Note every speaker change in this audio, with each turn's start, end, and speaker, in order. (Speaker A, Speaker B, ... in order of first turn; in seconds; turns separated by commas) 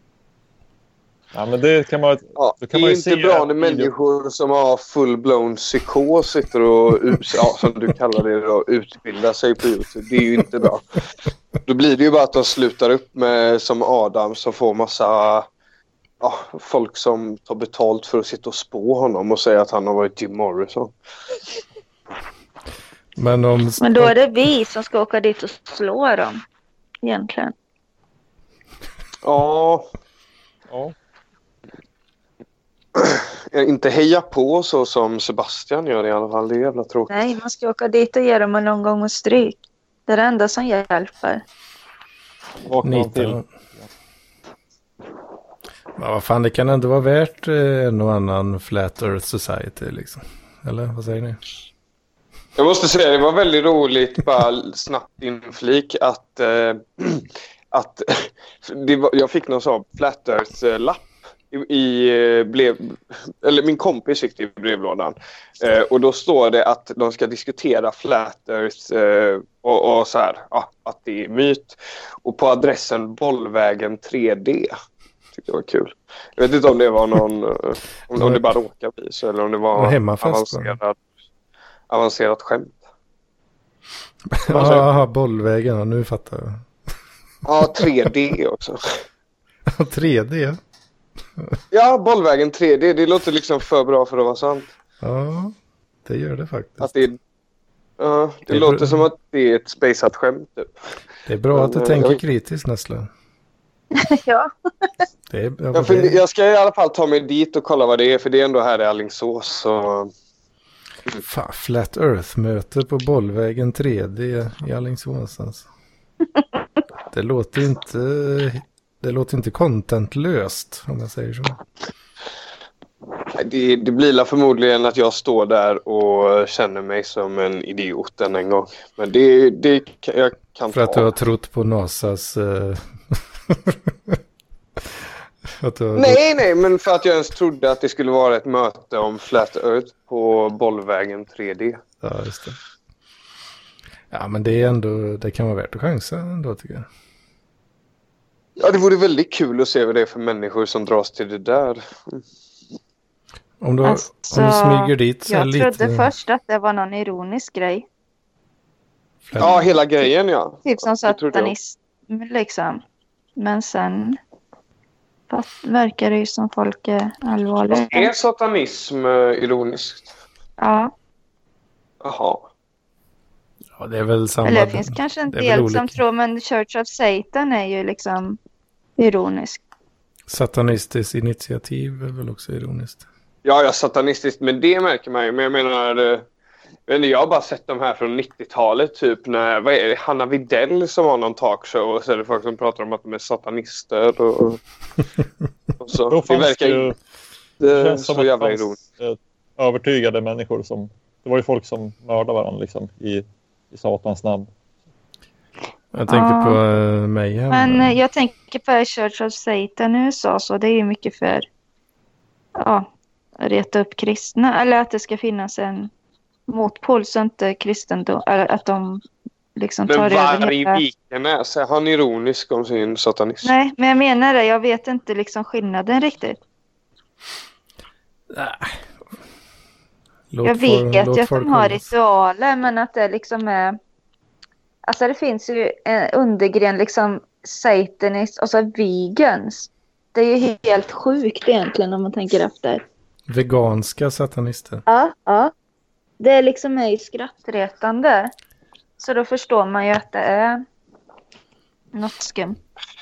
Speaker A: 1.3-3.9, Speaker B: 2.4-10.8, Speaker B: 11.7-15.5, Speaker B: 16.2-20.9, Speaker C: 23.1-24.1, Speaker D: 23.8-26.4, Speaker D: 27.0-27.5, Speaker B: 29.2-29.9, Speaker A: 30.7-30.9, Speaker B: 33.0-37.3, Speaker D: 37.1-41.4, Speaker A: 42.7-43.4, Speaker C: 42.8-43.4, Speaker C: 46.0-51.4, Speaker B: 52.6-74.7, Speaker B: 75.3-81.0, Speaker C: 78.2-78.4, Speaker C: 79.7-80.8, Speaker B: 81.9-82.8, Speaker C: 84.3-86.6, Speaker B: 84.5-84.8, Speaker B: 87.4-88.8, Speaker C: 89.7-90.6, Speaker B: 91.7-94.7, Speaker C: 95.0-97.0, Speaker B: 96.8-97.2, Speaker B: 98.0-100.7, Speaker C: 98.5-99.1, Speaker C: 101.2-103.1, Speaker B: 101.5-102.2, Speaker D: 103.9-104.9, Speaker C: 105.3-106.2, Speaker B: 105.7-110.1, Speaker C: 111.2-115.7, Speaker C: 117.1-121.6, Speaker B: 123.3-131.1, Speaker C: 130.7-134.2, Speaker C: 135.5-136.2, Speaker B: 135.9-141.8, Speaker C: 142.0-142.6, Speaker C: 144.1-146.9, Speaker B: 148.6-152.2, Speaker C: 153.6-156.1, Speaker D: 153.8-157.8, Speaker C: 159.2-159.7, Speaker B: 159.4-161.5, Speaker D: 160.6-162.8, Speaker D: 163.4-164.2, Speaker D: 165.3-168.1, Speaker B: 167.7-170.1, Speaker D: 170.6-170.9, Speaker B: 172.0-172.4, Speaker C: 173.8-176.0, Speaker D: 174.4-178.4, Speaker D: 179.0-179.6, Speaker C: 180.3-183.0, Speaker B: 183.4-186.2, Speaker B: 186.9-194.6, Speaker B: 195.8-196.9, Speaker A: 196.1-196.9, Speaker B: 197.6-198.8, Speaker A: 197.7-204.5, Speaker C: 205.9-208.0, Speaker D: 206.1-206.6, Speaker D: 207.5-211.4, Speaker D: 212.6-212.9, Speaker D: 213.4-215.9, Speaker D: 216.5-219.0, Speaker D: 219.6-220.8, Speaker B: 219.8-223.5, Speaker D: 223.4-226.4, Speaker C: 228.3-228.8, Speaker C: 230.3-231.8, Speaker D: 230.4-233.8, Speaker D: 234.8-242.8, Speaker C: 243.3-244.8, Speaker D: 244.9-245.5, Speaker D: 246.2-248.3, Speaker D: 249.0-250.6, Speaker D: 251.9-252.6